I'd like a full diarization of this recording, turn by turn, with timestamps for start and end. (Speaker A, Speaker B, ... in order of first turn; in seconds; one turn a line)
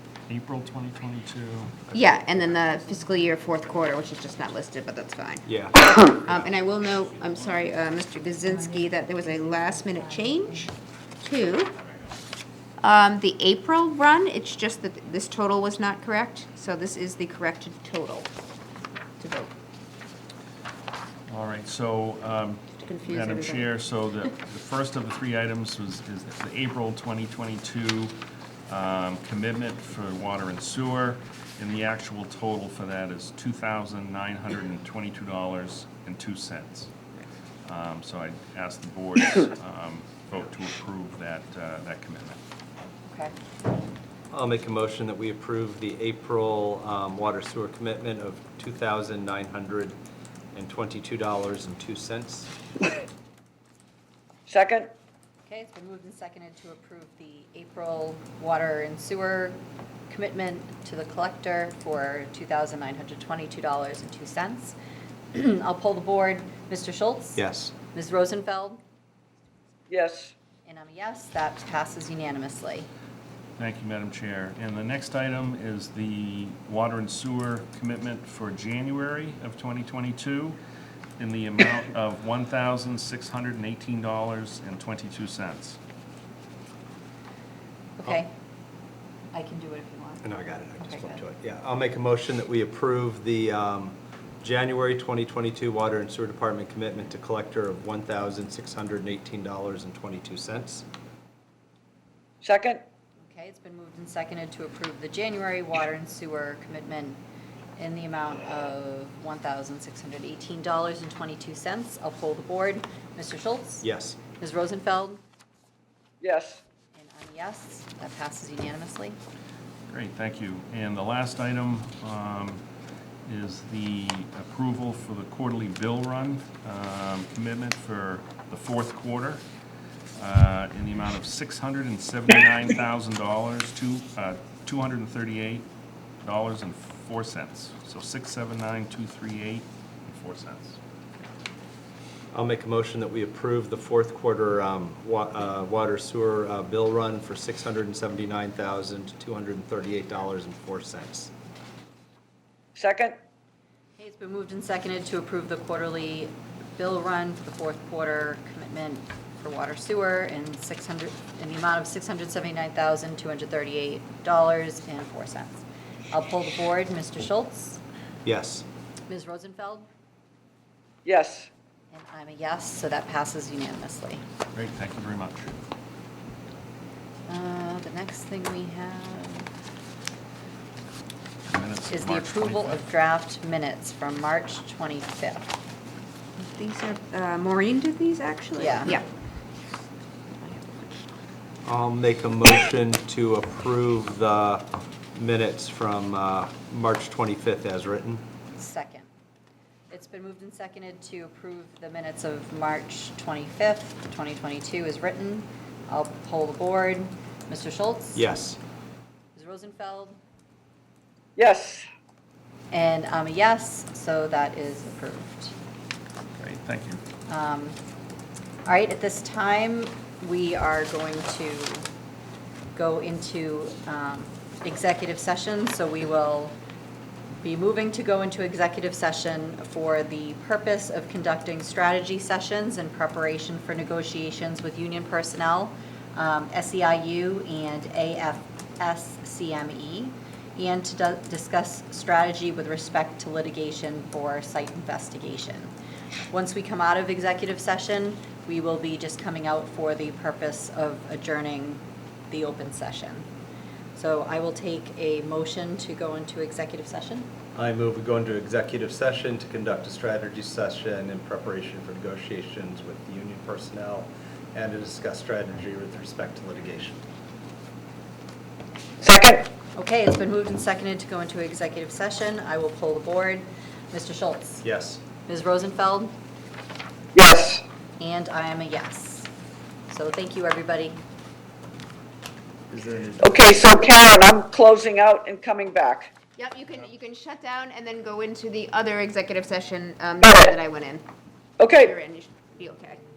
Speaker A: 0.3-1.8
Speaker B: 1.9-11.7
Speaker C: 5.5-6.4
Speaker B: 12.8-18.3
Speaker B: 19.2-19.5
Speaker A: 21.3-36.9
Speaker B: 22.8-23.7
Speaker A: 37.6-42.4
Speaker D: 43.1-43.3
Speaker C: 44.3-50.0
Speaker C: 50.5-52.5
Speaker E: 54.5-54.9
Speaker D: 55.5-64.8
Speaker D: 65.3-68.8
Speaker C: 67.4-67.7
Speaker E: 69.9-70.3
Speaker D: 70.7-72.9
Speaker A: 73.6-80.6
Speaker A: 81.2-85.8
Speaker D: 88.0-88.3
Speaker D: 89.3-90.3
Speaker C: 90.2-100.8
Speaker D: 90.8-91.2
Speaker E: 102.4-102.8
Speaker D: 103.2-107.2
Speaker D: 107.8-113.9
Speaker C: 113.8-114.2
Speaker D: 114.4-115.2
Speaker E: 116.2-116.6
Speaker D: 116.9-119.2
Speaker A: 119.9-122.6
Speaker A: 123.3-129.4
Speaker A: 130.2-135.7
Speaker A: 136.2-140.8
Speaker C: 142.3-151.3
Speaker E: 152.8-153.2
Speaker D: 154.0-167.8
Speaker C: 168.2-168.7
Speaker D: 169.1-169.9
Speaker E: 171.1-171.5
Speaker D: 171.9-174.2
Speaker A: 174.5-175.5
Speaker D: 177.3-179.5
Speaker A: 181.5-182.8
Speaker D: 181.9-185.5
Speaker B: 186.4-189.1
Speaker D: 188.6-189.0
Speaker B: 190.4-191.1
Speaker C: 191.7-198.2
Speaker D: 198.6-199.1
Speaker D: 199.9-208.3
Speaker C: 208.2-208.6
Speaker D: 209.3-210.2
Speaker E: 211.4-211.9
Speaker D: 212.7-215.5
Speaker A: 216.3-217.0
Speaker D: 217.3-217.8
Speaker D: 218.7-221.9
Speaker D: 222.8-226.6
Speaker D: 227.4-245.7
Speaker D: 246.3-253.3
Speaker D: 253.9-257.3
Speaker C: 257.6-267.0
Speaker E: 269.0-269.5
Speaker D: 269.7-274.6
Speaker C: 274.6-275.0
Speaker D: 275.2-276.2
Speaker E: 277.1-277.6
Speaker D: 278.0-279.3
Speaker D: 279.9-281.0
Speaker E: 282.8-286.1
Speaker B: 286.4-291.1
Speaker E: 290.2-290.5
Speaker E: 291.6-291.9
Speaker B: 291.6-293.0